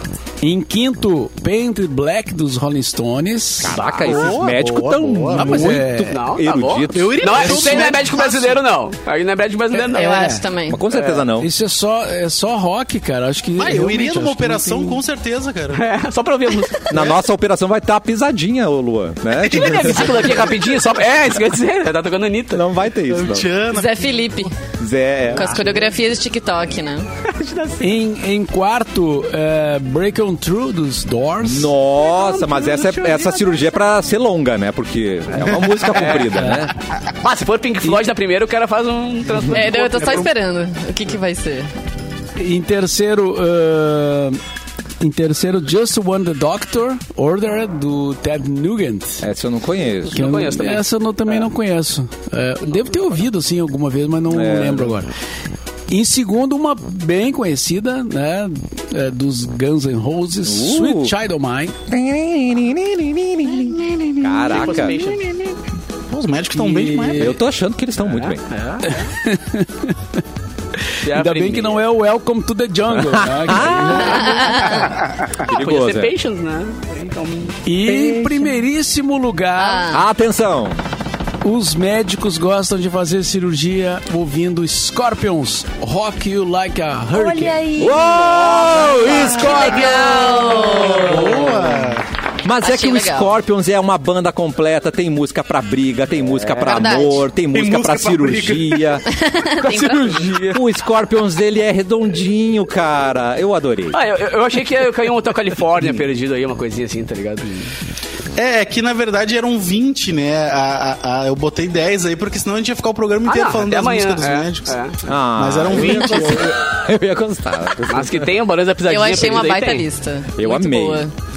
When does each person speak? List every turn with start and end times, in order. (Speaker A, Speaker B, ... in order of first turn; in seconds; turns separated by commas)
Speaker A: 0.4-3.8, Speaker B: 3.6-7.6, Speaker C: 3.9-5.8, Speaker A: 5.3-6.2, Speaker D: 5.9-11.2, Speaker C: 6.9-8.6, Speaker A: 7.3-8.1, Speaker E: 9.8-10.8, Speaker B: 10.7-11.5, Speaker A: 11.4-15.0, Speaker C: 13.6-15.8, Speaker D: 15.7-17.1, Speaker B: 16.9-20.4, Speaker D: 19.4-22.7, Speaker C: 19.6-20.4, Speaker B: 22.5-23.5, Speaker C: 23.1-24.2, Speaker E: 23.7-24.5, Speaker B: 24.8-25.7, Speaker E: 25.3-27.1, Speaker D: 27.2-28.0, Speaker A: 27.8-31.7, Speaker B: 31.4-36.7, Speaker D: 32.0-33.5, Speaker D: 35.8-36.5, Speaker A: 36.4-36.6, Speaker D: 37.2-40.3, Speaker E: 39.5-41.7, Speaker A: 42.4-44.4, Speaker A: 45.0-49.2, Speaker B: 49.2-50.2, Speaker D: 50.1-51.4, Speaker A: 50.1-55.1, Speaker B: 54.3-54.9, Speaker A: 55.9-61.8, Speaker B: 60.4-61.1, Speaker B: 61.9-65.1, Speaker C: 64.3-65.0, Speaker D: 64.5-65.5, Speaker C: 66.1-67.3, Speaker A: 66.5-67.4, Speaker B: 67.2-68.4, Speaker D: 68.0-69.0, Speaker A: 68.8-70.0, Speaker A: 71.0-74.7, Speaker D: 71.0-71.8, Speaker B: 72.9-76.1, Speaker E: 74.0-75.0, Speaker D: 74.7-77.6, Speaker A: 77.6-79.9, Speaker B: 77.8-78.5, Speaker E: 79.6-80.0, Speaker B: 79.9-80.8, Speaker A: 81.4-87.7, Speaker E: 87.2-91.5, Speaker B: 87.8-99.0, Speaker D: 88.6-89.3, Speaker C: 89.1-92.0, Speaker E: 92.6-93.3, Speaker E: 96.6-97.2, Speaker C: 97.5-99.0, Speaker E: 99.0-100.4, Speaker D: 99.6-100.6, Speaker B: 100.5-104.0, Speaker D: 103.9-107.7, Speaker C: 108.3-114.8, Speaker D: 113.2-115.0, Speaker B: 115.1-118.3, Speaker C: 115.3-116.6, Speaker D: 117.9-119.8, Speaker E: 118.8-121.1, Speaker B: 120.4-121.0